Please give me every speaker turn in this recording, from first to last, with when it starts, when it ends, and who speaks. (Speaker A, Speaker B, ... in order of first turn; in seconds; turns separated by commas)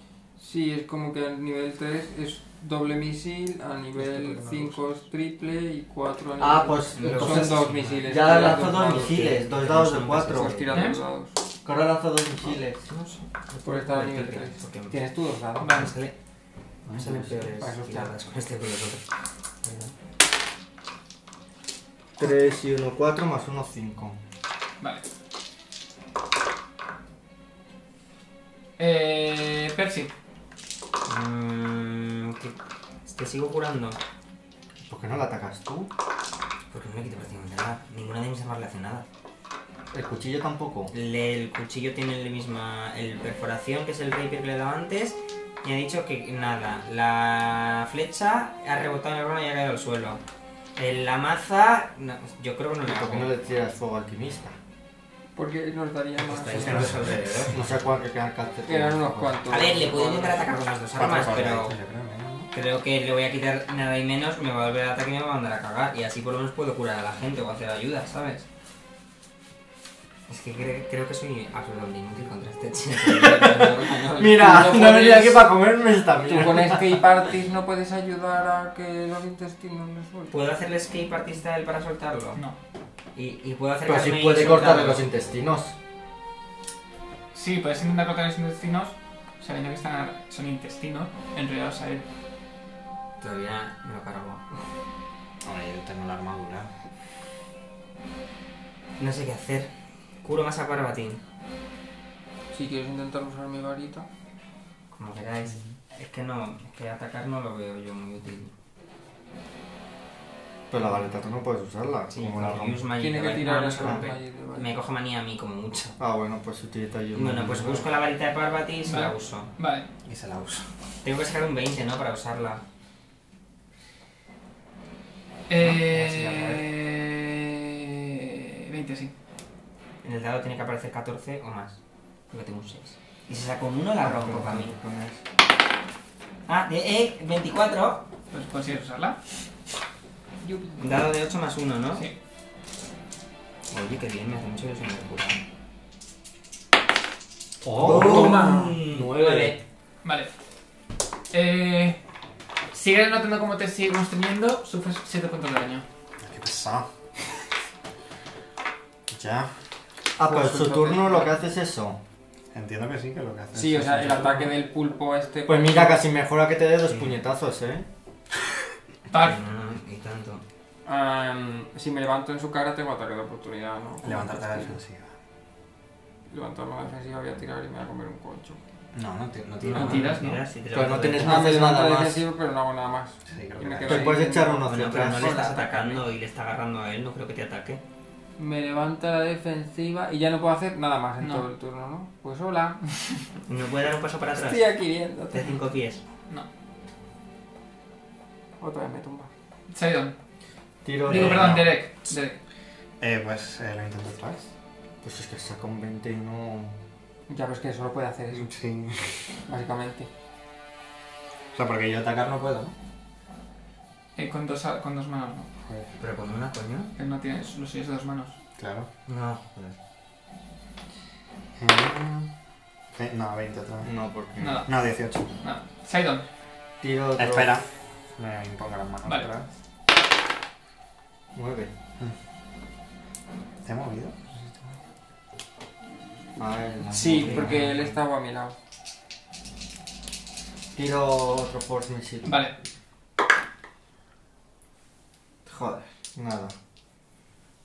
Speaker A: 0.4-9.4, Speaker B: 4.0-4.8, Speaker C: 6.4-10.8, Speaker D: 7.0-10.9, Speaker A: 10.3-11.3, Speaker E: 10.7-11.0, Speaker C: 11.6-12.8, Speaker D: 12.4-15.0, Speaker A: 13.7-15.9, Speaker E: 15.6-15.9, Speaker D: 15.6-16.1, Speaker C: 16.9-17.5, Speaker D: 16.9-19.0, Speaker A: 17.5-18.1, Speaker D: 19.6-19.9, Speaker C: 22.2-24.2, Speaker E: 24.8-25.1, Speaker E: 28.8-30.1, Speaker D: 31.1-34.0, Speaker C: 34.9-35.9, Speaker D: 36.7-39.1, Speaker C: 39.9-40.9, Speaker D: 40.9-50.2, Speaker D: 50.8-53.3, Speaker C: 52.8-54.6, Speaker A: 55.4-57.1, Speaker D: 56.2-57.5, Speaker B: 56.5-57.7, Speaker C: 56.7-59.4, Speaker A: 58.7-60.6, Speaker D: 59.5-61.8, Speaker B: 61.0-62.5, Speaker C: 61.0-61.3, Speaker D: 62.5-68.5, Speaker D: 70.3-74.5, Speaker C: 73.0-77.0, Speaker A: 74.2-75.5, Speaker A: 76.2-80.3, Speaker D: 80.3-82.4, Speaker D: 83.2-85.1, Speaker C: 83.9-85.7, Speaker E: 87.3-92.0, Speaker D: 93.2-94.4, Speaker B: 95.4-96.7, Speaker D: 99.0-99.7, Speaker D: 100.2-101.2, Speaker A: 102.5-104.1, Speaker D: 104.9-108.5, Speaker C: 110.7-112.9, Speaker D: 112.1-116.0, Speaker A: 113.0-114.7, Speaker C: 113.8-114.1, Speaker C: 116.0-117.9, Speaker D: 117.1-119.5, Speaker E: 118.9-119.9, Speaker B: 120.0-120.7, Speaker D: 121.0-122.6, Speaker E: 125.5-129.1, Speaker D: 125.6-126.7, Speaker D: 130.0-131.8, Speaker D: 132.3-134.8, Speaker C: 134.0-135.2, Speaker D: 136.5-138.1, Speaker E: 138.3-139.2, Speaker A: 140.4-141.1, Speaker D: 140.8-142.1, Speaker D: 143.7-145.4, Speaker C: 147.6-149.6, Speaker D: 147.8-149.6, Speaker A: 148.0-148.8, Speaker E: 150.0-150.3, Speaker E: 151.3-152.0, Speaker E: 152.7-155.8, Speaker B: 156.2-156.9, Speaker B: 159.1-159.5, Speaker C: 160.2-162.0, Speaker A: 160.2-161.4, Speaker B: 162.5-164.5, Speaker A: 163.5-166.0, Speaker C: 165.5-167.9, Speaker D: 166.9-167.2, Speaker E: 169.1-169.4, Speaker D: 169.1-170.4, Speaker A: 170.9-174.8, Speaker B: 174.0-175.1, Speaker A: 176.3-178.6, Speaker B: 178.9-180.2, Speaker D: 179.6-181.7, Speaker E: 179.7-180.4, Speaker C: 180.7-182.3, Speaker A: 181.2-186.0, Speaker B: 183.3-184.2, Speaker C: 183.8-185.4, Speaker D: 184.6-187.8, Speaker A: 188.4-192.9, Speaker E: 191.2-191.5, Speaker D: 193.5-194.8, Speaker A: 194.3-195.6, Speaker D: 195.3-196.0, Speaker A: 198.6-199.3, Speaker E: 199.7-200.2, Speaker C: 200.8-201.6, Speaker E: 201.0-202.4, Speaker B: 201.1-201.8, Speaker B: 203.0-204.5, Speaker C: 205.0-206.7, Speaker A: 207.3-208.5, Speaker B: 208.3-209.2, Speaker A: 209.5-210.1, Speaker B: 211.5-212.7, Speaker E: 214.2-215.5, Speaker D: 216.0-216.9, Speaker E: 217.0-218.4, Speaker B: 218.6-218.9, Speaker D: 219.1-219.4, Speaker B: 221.6-222.3, Speaker B: 222.9-223.9, Speaker C: 223.8-224.7, Speaker E: 224.4-224.7, Speaker B: 224.7-225.3, Speaker E: 225.4-226.2, Speaker C: 226.8-227.5, Speaker B: 227.2-229.5, Speaker C: 231.3-231.7, Speaker B: 233.7-234.7, Speaker C: 236.4-237.8, Speaker A: 236.9-238.6, Speaker D: 237.2-237.6, Speaker C: 240.8-242.4, Speaker E: 242.2-242.5, Speaker C: 245.5-246.5